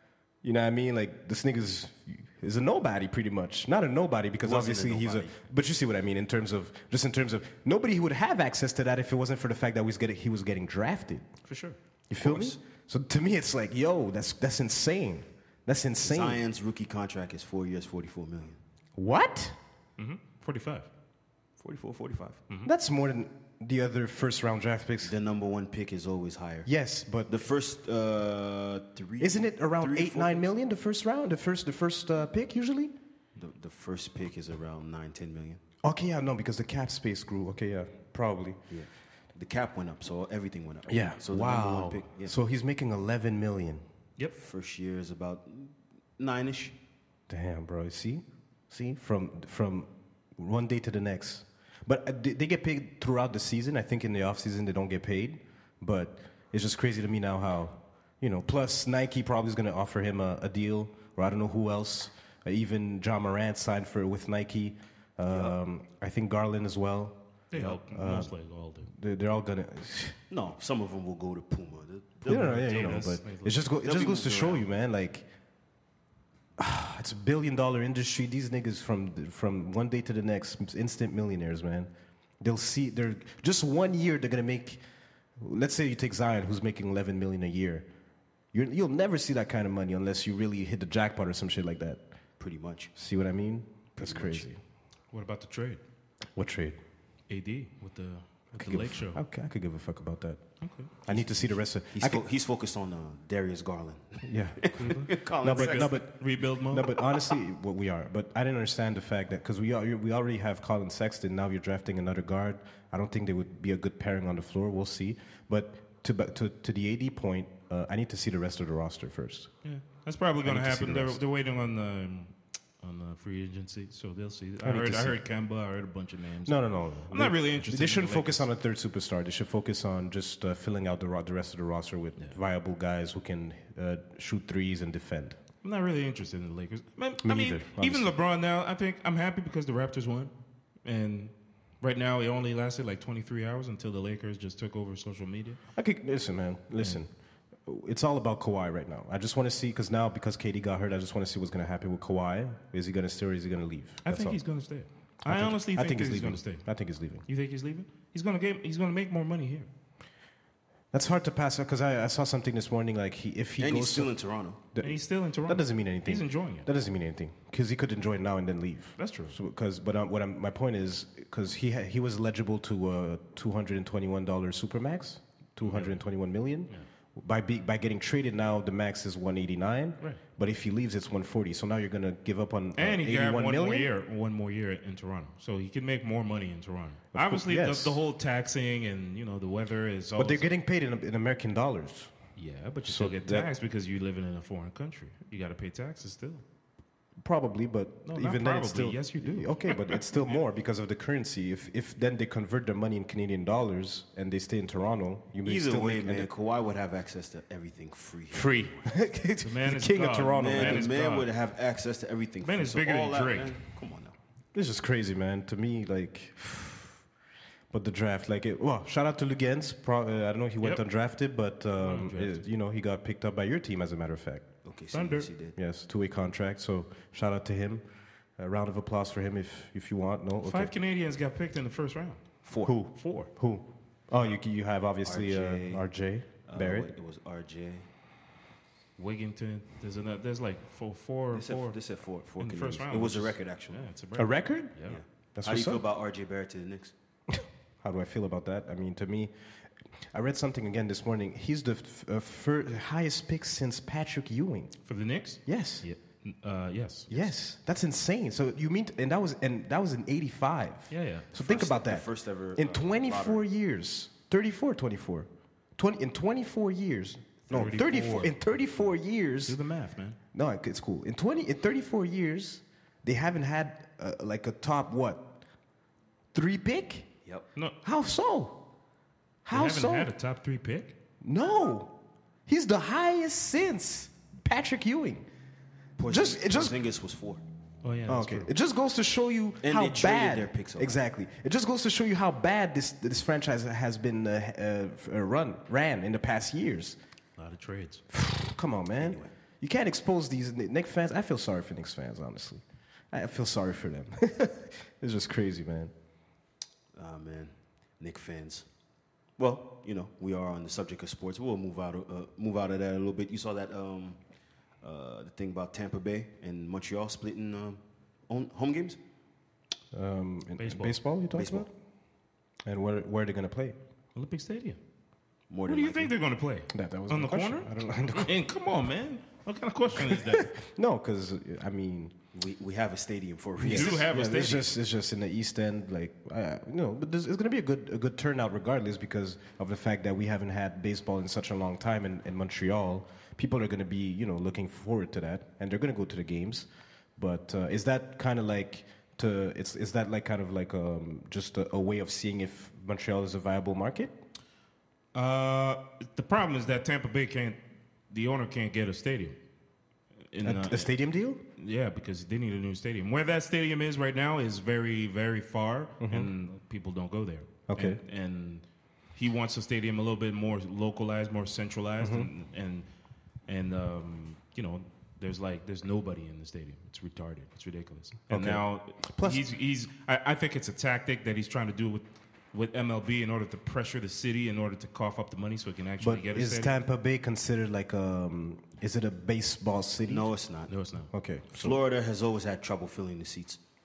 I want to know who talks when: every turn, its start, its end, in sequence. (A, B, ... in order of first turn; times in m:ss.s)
0:00.4-0:11.3 A
0:04.4-0:05.4 B
0:11.4-0:11.8 C
0:12.1-0:16.4 A
0:12.2-0:12.6 B
0:16.0-0:18.6 B
0:19.0-0:19.6 A
0:20.0-0:20.9 C
0:21.6-0:22.4 B
0:22.6-0:25.1 A
0:25.0-0:26.7 B
0:26.6-0:27.3 A
0:27.3-0:30.4 B
0:29.2-0:32.9 A
0:33.4-0:35.6 B
0:35.8-0:38.6 A
0:38.7-0:42.3 B
0:40.9-0:43.8 A
0:44.3-0:46.7 B
0:47.3-1:08.3 A
1:05.3-1:05.6 B
1:07.5-1:08.9 C
1:08.9-1:10.2 A
1:10.3-1:12.7 B
1:12.2-1:15.2 A
1:12.3-1:13.6 C
1:13.8-1:14.6 B
1:16.6-1:24.8 A
1:25.4-1:27.8 A
1:28.5-1:32.0 A
1:32.4-1:32.9 B
1:33.0-1:34.6 A
1:34.0-1:34.5 B
1:35.1-1:35.8 C
1:36.3-1:36.8 A
1:37.3-1:39.2 C
1:38.6-1:42.2 A
1:40.6-1:40.9 C
1:41.1-1:46.1 B
1:44.2-1:59.5 A
1:44.7-1:47.0 C
1:46.9-1:47.4 B
1:59.6-2:08.5 C
2:00.4-2:01.2 A
2:04.6-2:05.2 A
2:06.4-2:15.4 A
2:15.6-2:20.3 C
2:17.2-2:18.1 A
2:20.8-2:25.6 C
2:25.7-2:27.1 A
2:27.6-2:34.4 A
2:34.0-2:36.7 C
2:35.2-2:37.2 A
2:37.2-2:39.7 C
2:40.9-2:44.1 A
2:43.6-2:44.6 B
2:44.7-3:03.9 A
2:44.8-2:46.7 C
2:49.0-2:49.4 C
2:55.6-2:56.0 C
3:02.8-3:10.5 C
3:07.1-3:08.0 A
3:10.2-3:12.1 A
3:12.4-3:16.4 C
3:12.8-3:13.5 A
3:17.2-3:26.3 A
3:18.0-3:20.1 C
3:25.4-3:28.8 B
3:28.3-3:30.9 A
3:29.4-3:31.3 C
3:30.4-3:34.1 B
3:32.4-3:33.6 C
3:34.5-3:37.0 A
3:37.7-3:44.5 A
3:41.8-3:42.4 C
3:44.6-3:45.6 B
3:44.9-3:45.3 C
3:45.6-3:47.8 A
3:48.4-3:50.7 A
3:50.4-3:53.3 C
3:52.4-3:52.7 B
3:52.6-3:56.9 A
3:55.0-3:55.9 B
3:56.4-3:57.9 B
3:59.0-4:01.8 C
4:01.3-4:03.8 B
4:02.4-4:05.0 C
4:04.2-4:04.8 A
4:04.9-4:06.9 B
4:05.4-4:05.8 A
4:07.3-4:09.3 A
4:10.1-4:14.7 A
4:14.8-4:17.3 C
4:15.4-4:15.8 A
4:17.1-4:29.6 A
4:20.9-4:21.3 C
4:21.4-4:23.4 B
4:27.5-4:28.4 C
4:29.4-4:30.2 C
4:30.3-4:35.3 A
4:36.3-4:37.1 A
4:37.8-4:38.6 A
4:39.4-4:40.1 A
4:39.5-4:40.9 C
4:41.2-4:41.9 A
4:42.5-4:45.2 A
4:46.0-4:47.4 B
4:46.1-4:46.8 A
4:47.8-4:48.5 C
4:48.1-4:57.0 A
4:49.6-4:51.0 B
4:57.4-4:58.0 C
4:58.1-5:05.9 A
4:59.0-4:59.3 B
5:06.9-5:08.6 B
5:09.4-5:14.2 B
5:14.8-5:19.0 B
5:19.9-5:21.7 A
5:20.6-5:21.0 C
5:21.3-5:21.7 B
5:22.6-5:23.8 A
5:24.1-5:24.8 C
5:25.5-5:26.1 B
5:25.6-5:30.5 C
5:26.7-5:28.3 A
5:30.0-5:32.1 A
5:32.3-5:34.6 B
5:33.6-5:54.1 A
5:33.6-5:34.7 C
5:55.1-5:57.6 C
5:58.1-5:59.4 C
6:00.3-6:00.9 C
6:00.4-6:01.4 A
6:01.6-6:12.9 C
6:06.0-6:06.3 A
6:07.7-6:08.0 A
6:12.0-6:12.3 A
6:13.5-6:26.7 C
6:18.3-6:19.4 A
6:26.0-6:30.3 A
6:30.1-6:30.7 B
6:30.7-6:31.1 C
6:31.1-6:31.8 A
6:31.5-6:33.6 B